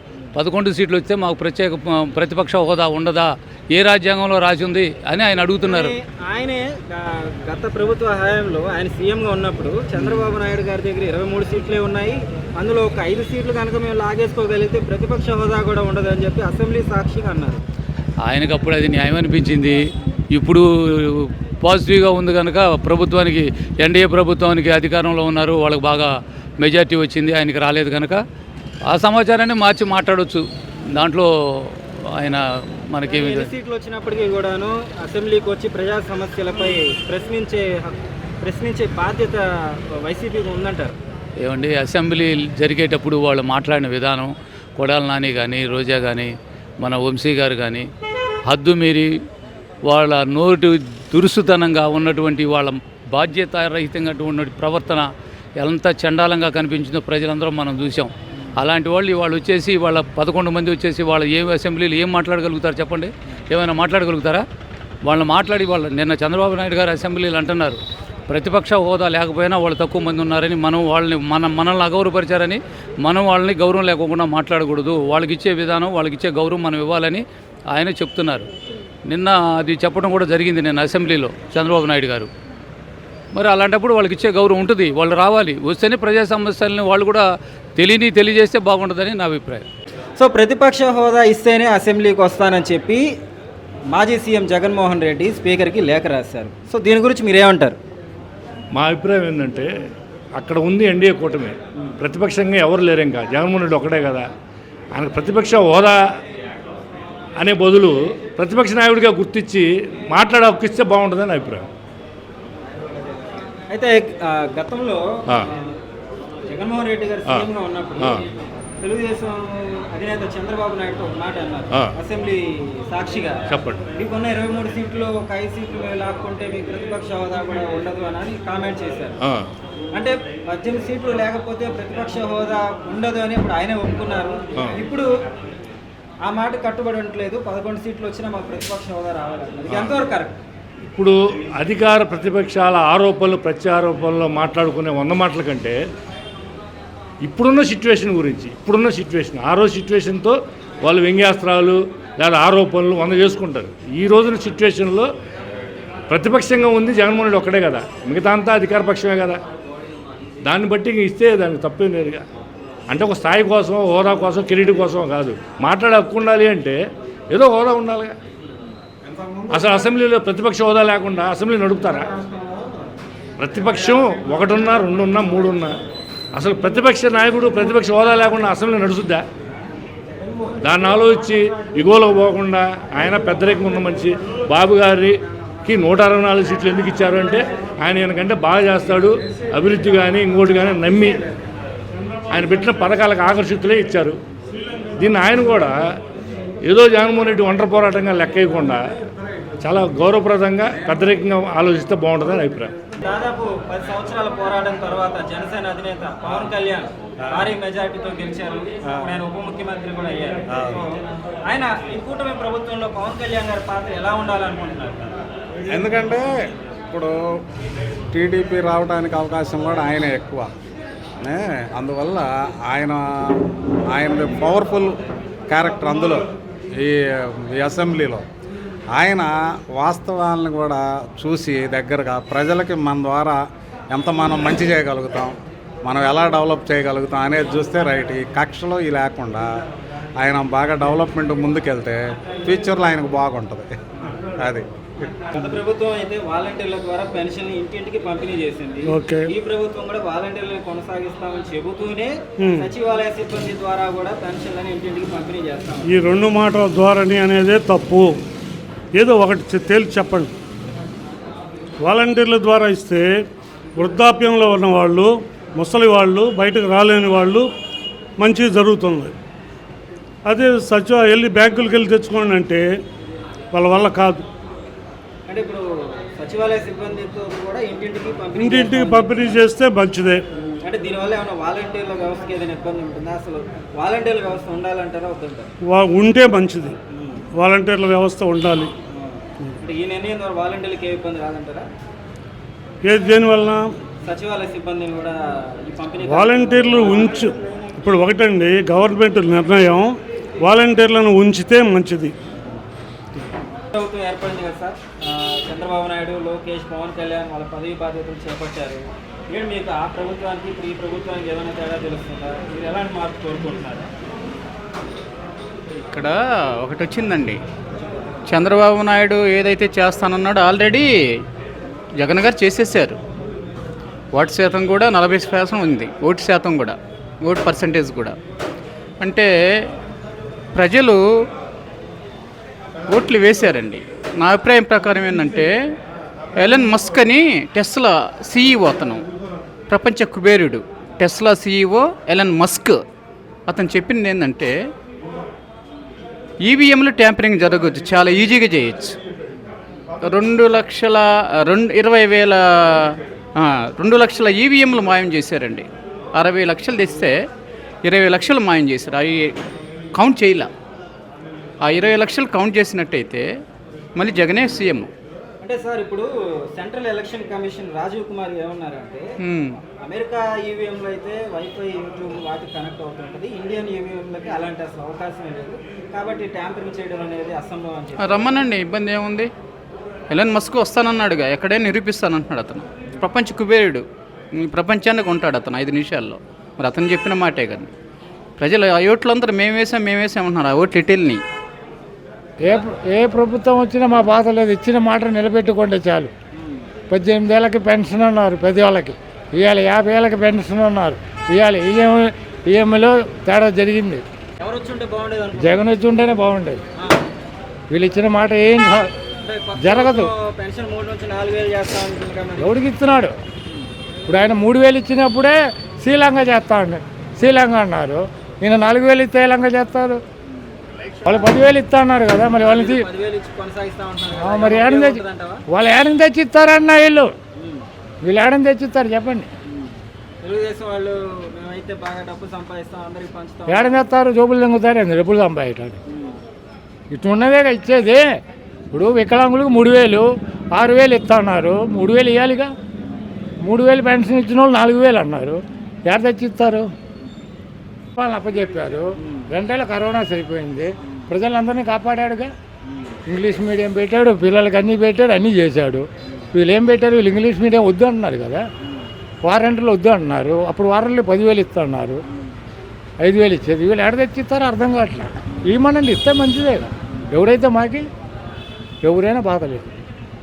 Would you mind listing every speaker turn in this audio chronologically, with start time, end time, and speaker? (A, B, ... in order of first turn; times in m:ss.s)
0:00.3-0:05.9 A
0:05.6-0:17.6 B
0:10.0-0:10.3 A
0:18.3-0:19.8 A
0:20.3-0:28.2 A
0:28.9-0:30.4 A
0:31.0-0:33.5 A
0:33.0-0:41.0 B
0:41.4-0:46.3 A
0:46.8-0:47.9 A
0:48.5-0:49.1 A
0:49.9-0:55.1 A
0:55.6-1:04.4 A
1:05.1-1:18.5 A
1:19.1-1:22.3 A
1:23.4-1:27.3 A
1:27.8-1:29.7 A
1:30.2-1:33.0 B
1:33.9-1:37.8 B
1:38.8-1:39.7 C
1:40.4-1:44.2 C
1:45.0-1:46.0 C
1:47.4-1:51.7 C
1:53.7-1:55.7 B
1:56.5-1:58.2 B
1:58.8-2:03.4 B
2:03.5-2:03.8 C
2:04.0-2:09.2 B
2:09.9-2:15.1 B
2:16.2-2:20.4 B
2:19.7-2:20.0 C
2:20.9-2:25.8 C
2:27.2-2:35.1 C
2:36.1-2:39.4 C
2:40.5-2:42.2 C
2:42.9-2:46.8 C
2:47.3-2:48.1 C
2:49.5-2:52.1 C
2:53.4-2:55.7 C
2:56.4-2:59.2 C
3:00.6-3:05.2 C
3:05.7-3:11.2 C
3:12.3-3:14.2 C
3:15.0-3:15.8 C
3:16.7-3:18.8 C
3:19.6-3:22.7 C
3:23.0-3:35.1 B
3:30.5-3:30.8 D
3:35.7-3:36.3 D
3:36.9-3:37.3 D
3:38.1-3:40.5 D
3:41.2-3:43.0 D
3:43.9-3:45.0 D
3:45.5-3:48.2 D
3:48.9-3:53.4 D
3:53.9-3:59.5 D
4:00.2-4:03.7 D
4:04.4-4:04.7 D
4:05.2-4:16.0 B
4:08.9-4:09.3 E
4:12.4-4:12.7 E
4:15.8-4:18.1 E
4:19.0-4:20.3 E
4:21.8-4:23.1 E
4:23.8-4:27.5 E
4:28.2-4:29.1 E
4:30.3-4:32.6 E
4:33.5-4:34.2 E
4:35.3-4:35.6 B
4:36.2-4:39.4 B
4:38.4-4:40.2 E
4:40.6-4:45.5 B
4:45.6-4:46.8 E
4:46.9-4:47.2 B
4:47.4-4:48.7 E
4:49.0-4:51.7 B
4:52.8-4:53.7 E
4:54.0-4:57.4 B
4:56.0-4:59.9 E
5:00.4-5:02.1 E
5:03.7-5:13.9 B
5:15.8-5:17.4 F
5:18.3-5:20.9 F
5:22.0-5:23.0 F
5:24.1-5:28.2 F
5:29.0-5:29.3 F
5:30.6-5:31.0 F
5:32.9-5:35.5 F
5:36.4-5:39.0 F
5:39.7-5:42.8 F
5:43.5-5:44.6 F
5:46.4-5:49.0 F
5:50.0-5:57.2 F
5:57.8-5:59.4 F
5:59.9-6:00.5 F
6:01.6-6:03.3 F
6:04.0-6:04.9 F
6:05.4-6:09.1 B
6:09.2-6:09.6 F
6:09.7-6:18.4 B
6:18.0-6:19.3 F
6:20.1-6:23.8 F
6:24.4-6:27.7 F
6:28.4-6:31.2 F
6:32.4-6:36.1 G
6:36.4-6:36.6 B
6:36.9-6:44.0 G
6:44.4-6:45.6 B
6:45.4-6:46.6 G
6:46.8-6:47.0 B
6:47.7-6:48.9 G
6:49.2-6:52.6 B
6:49.6-6:50.1 G
6:52.4-6:53.2 G
6:54.1-7:00.0 G
7:01.0-7:02.9 G
7:02.3-7:05.4 B
7:04.2-7:07.1 G
7:07.4-7:07.6 B
7:08.0-7:09.3 G
7:09.5-7:13.8 B
7:13.5-7:15.8 G
7:15.9-7:16.2 B
7:16.9-7:18.1 G
7:18.7-7:22.5 G
7:23.4-7:26.7 G
7:28.0-7:32.3 G
7:32.7-7:32.9 B
7:33.1-7:38.4 G
7:39.2-7:42.0 G
7:43.0-7:47.8 G
7:48.8-7:49.7 G